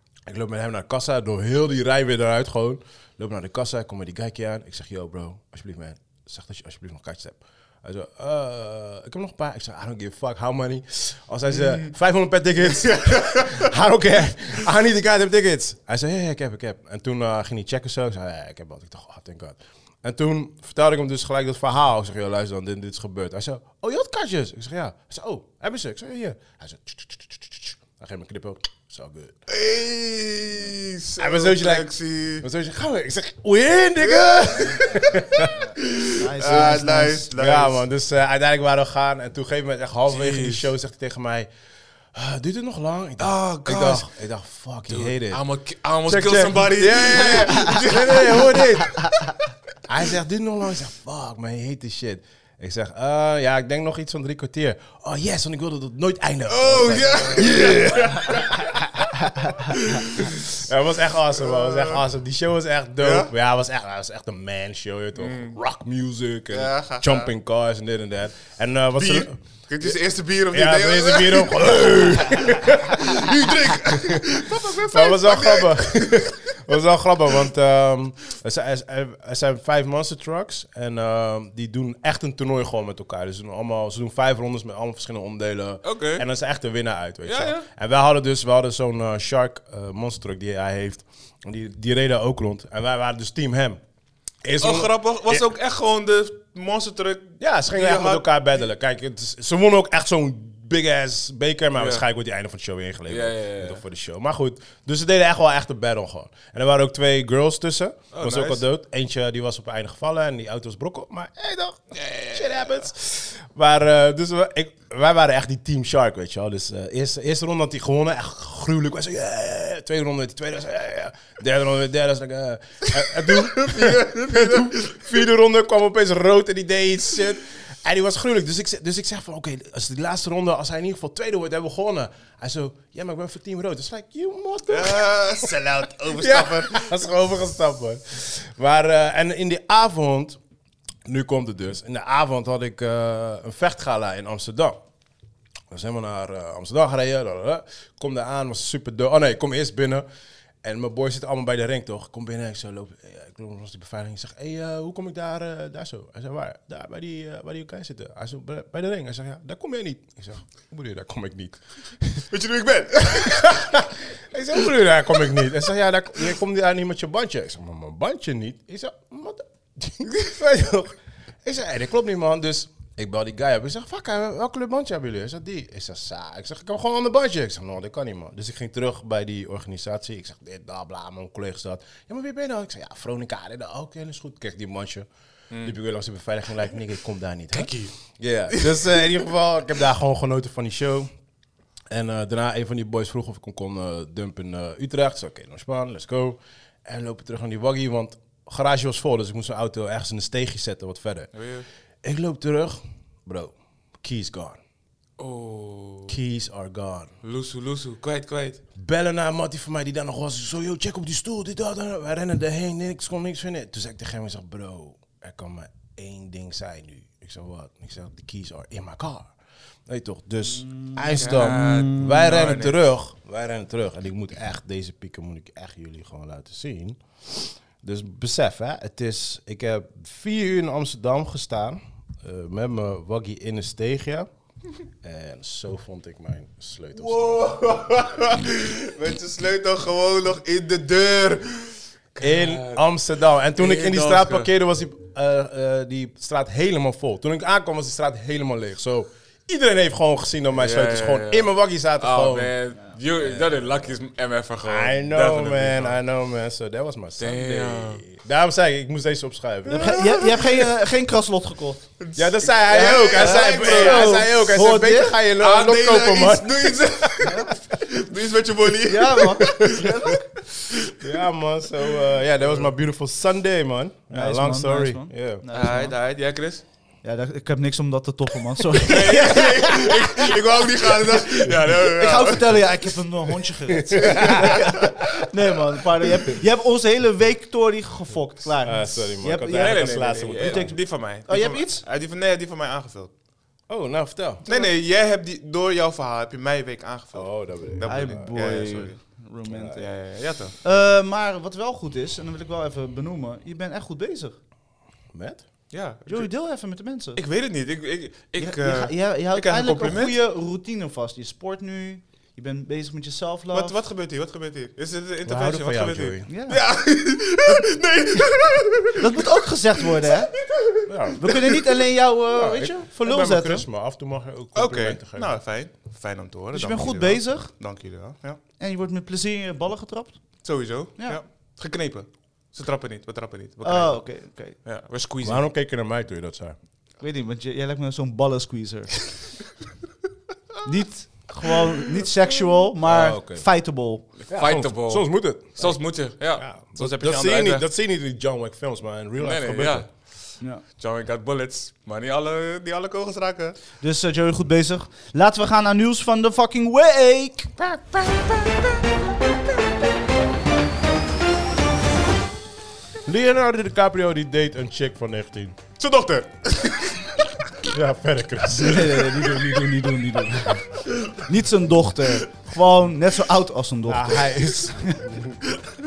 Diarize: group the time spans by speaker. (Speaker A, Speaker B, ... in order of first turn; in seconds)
Speaker A: 0.2-29.3, 31.2-31.9, 32.4-35.6, 36.5-36.7, 37.3-41.5, 42.1-45.4, 46.0-49.0, 49.8-70.0, 70.5-74.2, 74.7-93.8, 94.4-95.5, 97.4-135.2, 136.2-140.4, 141.1-144.8, 145.7-150.0, 150.6-162.3, 163.1-185.1, 185.6-191.1, 191.9-201.3, 202.0-204.6, 206.1-207.1, 208.8-219.3, 219.8-234.3, 235.0-237.7, 242.2-252.6, 253.1-253.9, 254.6-260.1, 262.1-267.7, 269.5-270.1, 270.9-275.4, 283.9-284.7, 288.6-290.8, 293.7-294.4, 297.1-298.4, 299.5-299.8, 305.1-305.5, 315.2-316.3, 320.9-321.2, 322.3-325.3, 335.2-336.6, 342.8-343.5, 344.3-349.9, 363.0-365.6, 367.7-369.5, 373.9-375.4
Speaker B: 11.5-11.9, 12.7-13.7, 29.5-32.5, 34.1-37.8, 40.1-40.7, 43.2-44.0, 44.9-49.0, 56.5-58.7, 59.8-60.5, 61.4-62.0, 63.0-63.3, 65.2-65.6, 66.5-67.3, 69.0-76.3, 85.8-86.2, 87.2-87.7, 94.6-98.5, 101.7-102.0, 103.1-103.8, 108.1-108.6, 111.9-112.9, 123.2-125.2, 134.7-136.9, 162.3-163.9, 165.1-165.5, 187.5-187.9, 188.5-189.0, 201.3-201.7, 205.2-206.2, 207.2-208.6, 221.2-222.8, 236.9-242.9, 243.6-244.5, 250.5-256.0, 257.2-258.0, 259.7-260.7, 262.0-264.3, 265.4-269.8, 275.5-276.6, 278.9-282.6, 284.0-284.6, 289.5-293.1, 294.4-299.2, 299.7-300.6, 305.7-306.4, 307.1-310.1, 313.5-321.7, 324.5-328.4, 330.4-335.4, 341.5-342.1, 344.2-347.6, 349.2-353.6, 365.8-367.2, 370.9-371.2
Speaker C: 35.7-37.3, 220.7-221.0, 259.7-261.8, 263.1-265.2, 267.2-267.5, 268.8-270.3, 274.1-276.0, 277.0-291.8, 294.4-294.7, 297.8-300.0, 300.6-304.4, 306.1-307.2, 308.4-313.7, 316.3-316.6, 319.0-320.4, 321.2-323.6, 326.5-327.5, 328.6-330.4, 331.0-331.2, 333.6-334.6, 337.0-339.3, 340.6-344.1, 353.8-357.8, 368.5-375.0